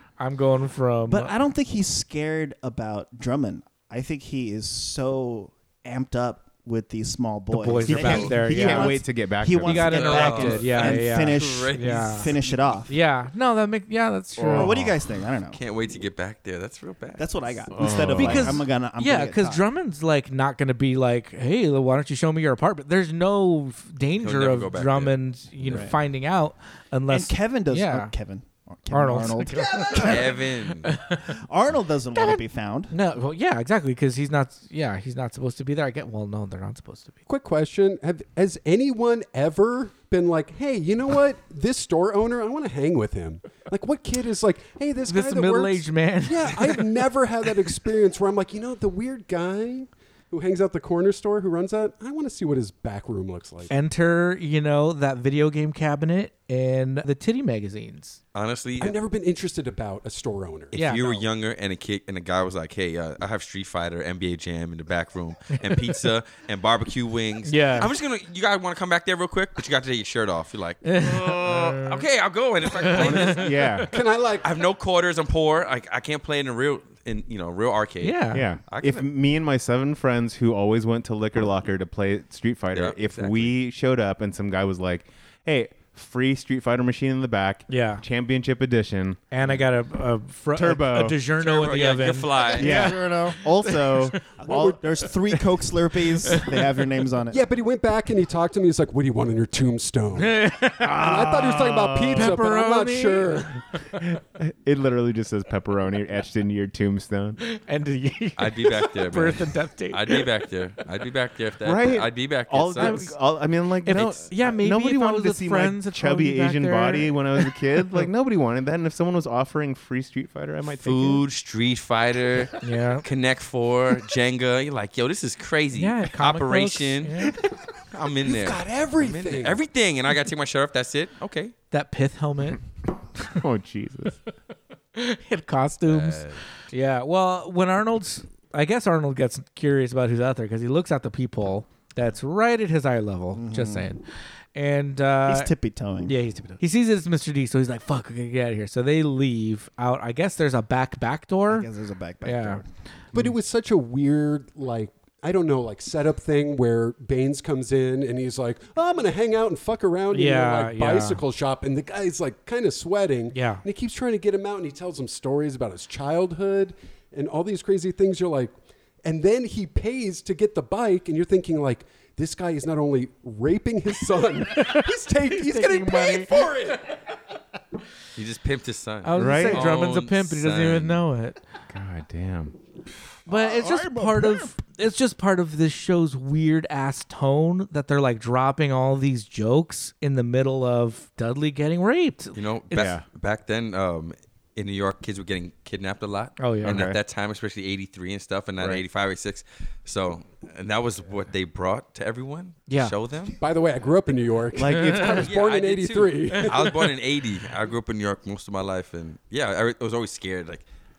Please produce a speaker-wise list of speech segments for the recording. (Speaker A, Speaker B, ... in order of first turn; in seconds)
Speaker A: 0.2-1.4, 7.5-9.0, 9.6-12.3, 12.9-14.8, 18.1-28.1, 28.9-31.2, 32.1-37.2, 45.1-47.0, 53.7-58.2, 60.7-61.2, 67.4-67.9, 70.8-72.0, 72.8-73.7, 78.0-78.5, 87.7-88.0, 89.3-94.3, 96.3-96.6, 100.2-101.0, 102.1-104.0, 107.4-110.2, 112.8-113.1, 113.8-118.0, 122.6-123.0, 125.8-127.4, 131.7-132.6, 134.9-144.0, 144.5-145.5, 146.0-151.7, 152.2-152.6, 160.1-161.2, 163.3-163.6, 175.3-176.5, 179.0-181.4, 183.3-192.3, 196.4-196.8, 202.7-202.9, 204.7-205.2
Speaker B: 1.1-12.9, 14.5-15.6, 17.1-19.6, 25.7-26.0, 27.1-30.4, 31.4-32.9, 92.5-93.4, 94.4-97.4, 143.3-144.0, 145.2-146.5, 151.5-152.7, 183.2-184.5
Speaker C: 7.8-10.5, 14.4-15.0, 17.7-18.6, 72.9-73.9, 78.3-89.6, 90.5-91.2, 92.6-95.1, 100.8-102.4, 104.0-107.4, 111.6-121.2, 133.3-134.2, 179.2-179.8, 181.7-182.6, 192.7-193.0, 196.6-197.0, 204.5-205.3
Speaker D: 9.8-12.6, 15.5-17.6, 24.2-25.9, 29.9-30.9, 58.3-59.0, 60.7-73.5, 74.4-79.0, 82.7-83.5, 91.4-92.7, 108.4-113.0, 120.8-127.4, 127.9-131.5, 135.9-136.4, 178.1-181.0, 192.3-203.3, 205.2-210.6
Speaker E: 37.3-53.7, 58.8-60.8, 73.9-74.4, 94.5-94.8, 97.3-103.6, 128.2-129.6, 153.1-168.5, 169.0-176.9, 203.4-206.8